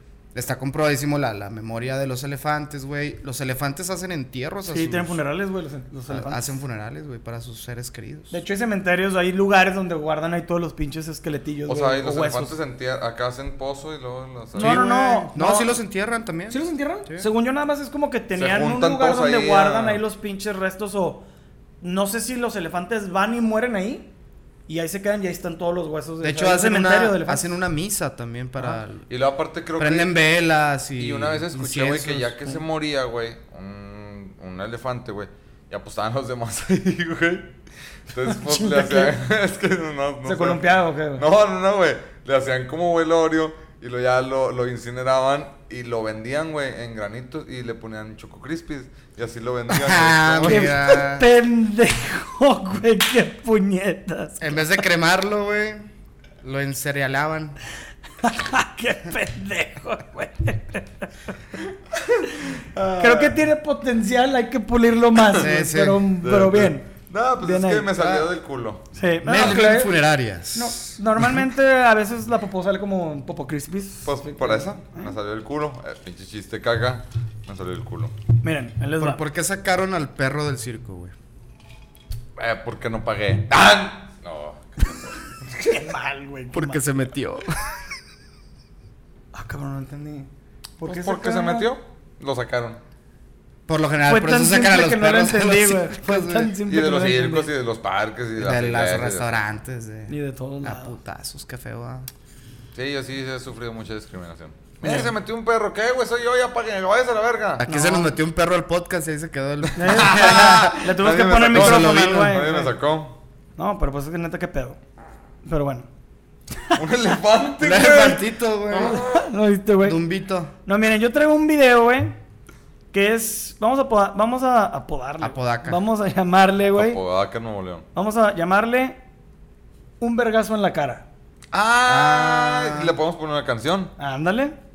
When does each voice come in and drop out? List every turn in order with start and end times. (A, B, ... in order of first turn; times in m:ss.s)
0:00.3-0:05.2 A
0:04.7-0:06.4 B
0:06.1-0:08.3 A
0:08.3-0:12.5 B
0:11.6-0:14.8 C
0:14.6-0:15.8 B
0:14.6-0:17.2 A
0:16.5-0:21.2 B
0:18.3-0:20.0 C
0:21.8-0:24.1 B
0:24.7-0:27.5 B
0:26.2-0:29.1 A
0:29.1-0:30.1 C
0:29.8-0:32.6 A
0:31.0-0:37.5 C
0:38.1-0:50.7 C
0:38.3-0:39.1 B
0:40.2-0:41.2 B
0:49.7-0:51.2 A
0:50.5-0:54.7 B
0:54.4-0:55.9 A
0:56.4-0:57.6 A
0:58.2-1:01.1 B
1:02.7-1:03.3 C
1:03.0-1:06.9 B
1:05.4-1:06.0 A
1:06.2-1:08.8 C
1:07.4-1:07.9 B
1:08.0-1:08.3 A
1:08.9-1:09.9 B
1:09.2-1:10.8 A
1:10.5-1:15.1 B
1:14.0-1:18.1 C
1:18.4-1:19.2 B
1:19.0-1:21.1 A
1:22.4-1:25.1 C
1:25.6-1:26.8 B
1:26.5-1:27.6 A
1:29.3-1:31.7 B
1:30.8-1:32.8 C
1:33.7-1:36.5 A
1:34.1-1:37.5 B
1:36.7-1:39.4 C
1:38.4-1:42.1 A
1:40.1-1:41.0 B
1:42.7-1:47.6 C
1:44.8-1:45.1 B
1:47.6-1:50.8 A
1:47.6-1:48.1 B
1:49.8-1:52.7 B
1:49.9-1:53.2 C
1:51.4-1:52.4 A
1:53.6-1:54.8 B
1:55.4-1:55.9 B
1:56.7-1:59.2 C
1:57.6-1:59.0 A
1:58.8-2:00.0 B
1:59.8-2:00.5 A
2:00.6-2:02.2 B
2:02.9-2:07.0 B
2:05.2-2:05.8 A
2:06.7-2:07.8 C
2:07.9-2:09.0 B
2:10.0-2:11.0 B
2:11.5-2:13.9 C
2:11.8-2:13.0 A
2:14.0-2:14.6 B